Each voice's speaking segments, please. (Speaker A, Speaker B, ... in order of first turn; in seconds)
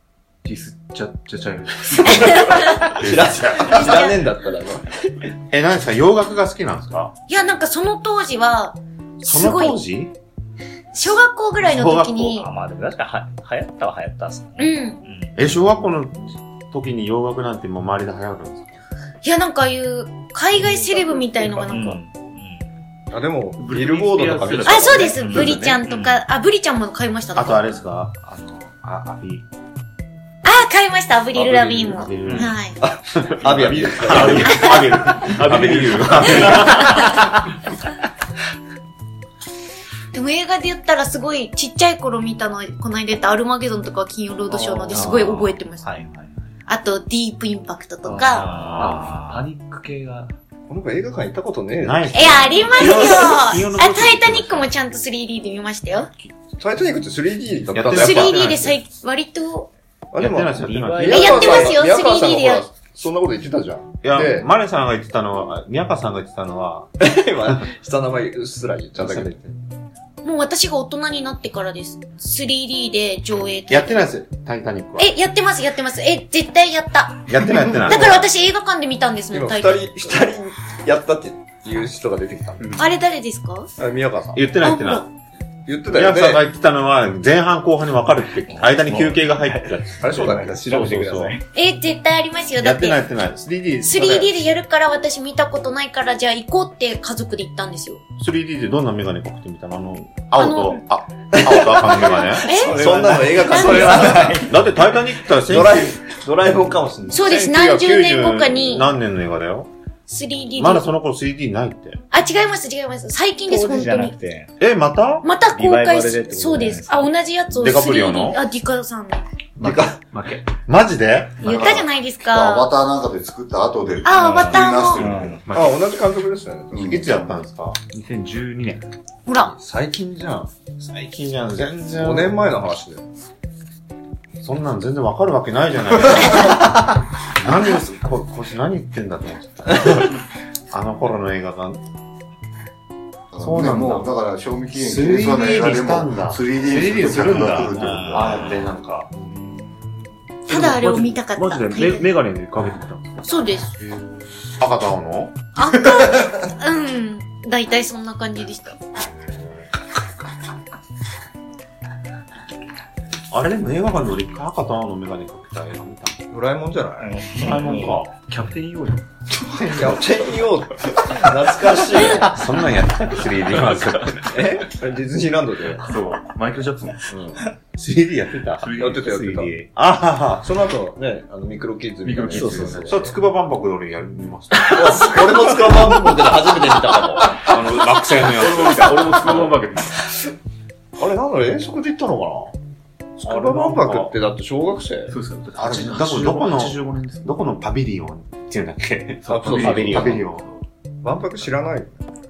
Speaker A: 0.4-3.0, 20.7-21.9, 23.6-25.9, 33.4-37.2, 44.5-45.4, 48.0-50.3, 82.6-82.9, 120.1-120.5, 125.4-125.8, 127.9-128.9, 149.3-149.7, 150.4-153.3, 167.4-169.6, 173.5-174.2, 175.8-177.1, 178.6-179.1, 182.0-183.0, 188.1-190.0, 195.1-197.5, 199.2-200.7
Speaker B: 2.1-2.7, 3.7-4.2, 7.3-9.8, 10.9-12.5, 14.6-15.0, 19.2-22.0, 24.6-27.6, 30.4-32.8, 34.4-34.8, 36.5-37.0, 40.1-46.0, 46.7-48.5, 52.1-56.1, 57.9-59.7, 61.0-62.7, 70.2-74.2, 75.0-80.2, 82.8-83.7, 84.6-85.0, 91.5-93.0, 93.8-98.0, 100.4-100.8, 102.4-104.2, 107.1-108.9, 110.1-110.9, 112.1-114.1, 115.2-119.2, 121.4-122.7, 124.0-125.0, 129.2-129.5, 150.5-152.0, 153.2-153.7, 155.6-158.8
Speaker C: 2.9-5.3, 12.5-13.0, 23.1-25.9, 32.4-34.6, 35.5-36.4, 48.2-49.3, 50.7-52.8, 56.6-58.4, 60.1-64.5, 67.0-69.6, 77.7-78.2, 79.3-82.8, 83.8-84.5, 85.7-86.5, 88.5-91.4, 101.3-104.6, 105.2-107.5, 119.6-120.0, 124.7-127.0, 129.4-130.5, 131.9-133.1, 147.8-148.4, 166.3-167.5, 169.8-172.4, 174.3-175.8, 178.8-179.5, 180.4-183.2, 184.6-187.4, 191.0-192.6, 193.2-195.2, 199.3-200.2, 201.0-202.0
Speaker D: 3.0-3.9, 5.5-7.1, 9.2-10.1, 11.6-12.4, 15.3-18.8, 27.3-29.5, 31.3-32.6, 33.2-37.1, 44.9-45.6, 48.1-49.1, 51.8-54.7, 57.7-58.8, 60.1-61.9, 64.0-66.9, 68.9-69.3, 73.7-75.2, 77.3-78.2, 84.3-85.1, 85.9-91.4, 92.6-94.6, 98.2-106.0, 107.3-109.7, 110.5-112.0, 114.6-115.2, 117.5-118.4, 119.6-119.9, 120.7-121.9, 126.7-127.8, 130.8-132.4, 134.4-140.2, 140.7-141.8, 143.4-144.1, 144.7-149.1, 154.6-155.4, 163.3-166.2, 167.3-168.1, 169.4-170.1, 171.9-174.4, 177.1-180.5, 182.3-186.5, 187.2-189.5, 193.2-194.1, 195.6-200.5
Speaker E: 12.4-15.4, 21.7-22.6, 25.9-26.2, 45.9-46.3, 48.6-49.2, 113.6-114.5, 115.5-117.1, 124.2-125.4, 167.2-167.9
Speaker F: 121.5-125.5, 126.7-127.4, 143.3-148.7